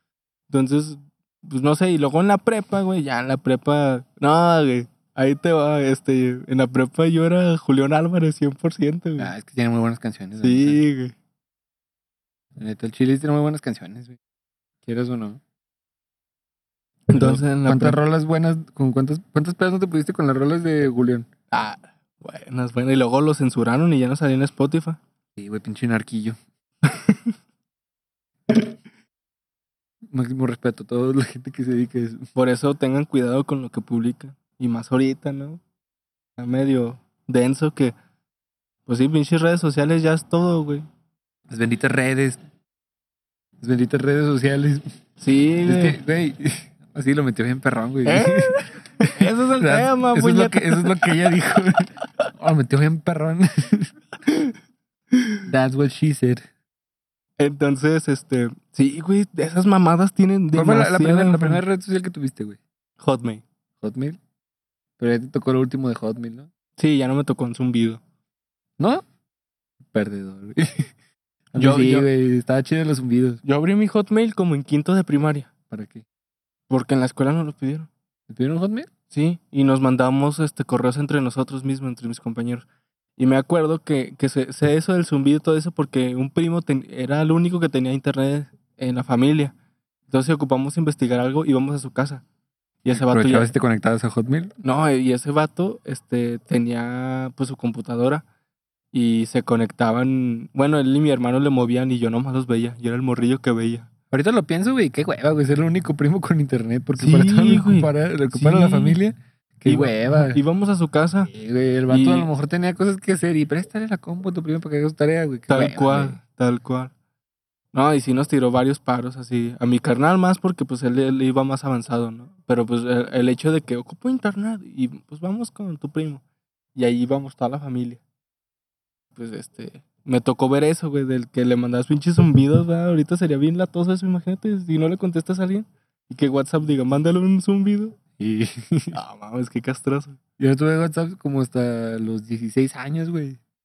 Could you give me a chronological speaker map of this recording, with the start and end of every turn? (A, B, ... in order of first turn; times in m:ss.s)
0:00.5-0:09.3 A
0:09.2-0:10.8 B
0:10.4-0:11.1 A
0:12.6-0:14.2 B
0:14.8-0:15.4 B
0:17.1-0:18.0 A
0:17.1-0:21.3 B
0:21.5-0:25.0 A
0:25.4-0:26.4 B
0:26.8-0:27.3 A
0:30.1-0:32.2 B
0:32.3-0:35.6 A
0:36.4-0:37.9 A
0:38.8-0:40.8 A
0:41.5-0:42.4 B
0:43.6-0:44.8 B
0:45.2-0:46.0 A
0:45.6-0:53.9 B
0:48.0-0:51.6 A
0:54.3-0:54.5 A
0:55.1-0:55.4 A
0:55.5-0:56.4 B
0:57.4-1:01.6 A
1:00.5-1:02.6 B
1:03.0-1:03.4 A
1:03.8-1:04.2 B
1:05.0-1:06.5 B
1:06.8-1:08.0 A
1:09.9-1:10.9 B
1:11.5-1:13.4 B
1:11.6-1:12.1 A
1:13.4-1:15.5 A
1:15.7-1:16.0 B
1:16.7-1:17.9 A
1:18.3-1:18.9 B
1:19.1-1:22.6 A
1:23.2-1:29.5 A
1:30.1-1:32.2 A
1:32.8-1:33.5 A
1:32.9-1:34.5 B
1:34.6-1:38.2 A
1:38.9-1:43.9 A
1:44.1-1:50.4 B
1:47.0-1:49.0 A
1:49.6-1:51.3 A
1:51.3-1:56.2 B
1:51.9-1:52.3 A
1:55.5-1:56.9 A
1:57.7-2:06.2 A
2:06.8-2:08.0 A
2:09.2-2:18.0 A
2:18.2-2:19.0 B
2:18.9-2:20.2 A
2:20.4-2:23.4 B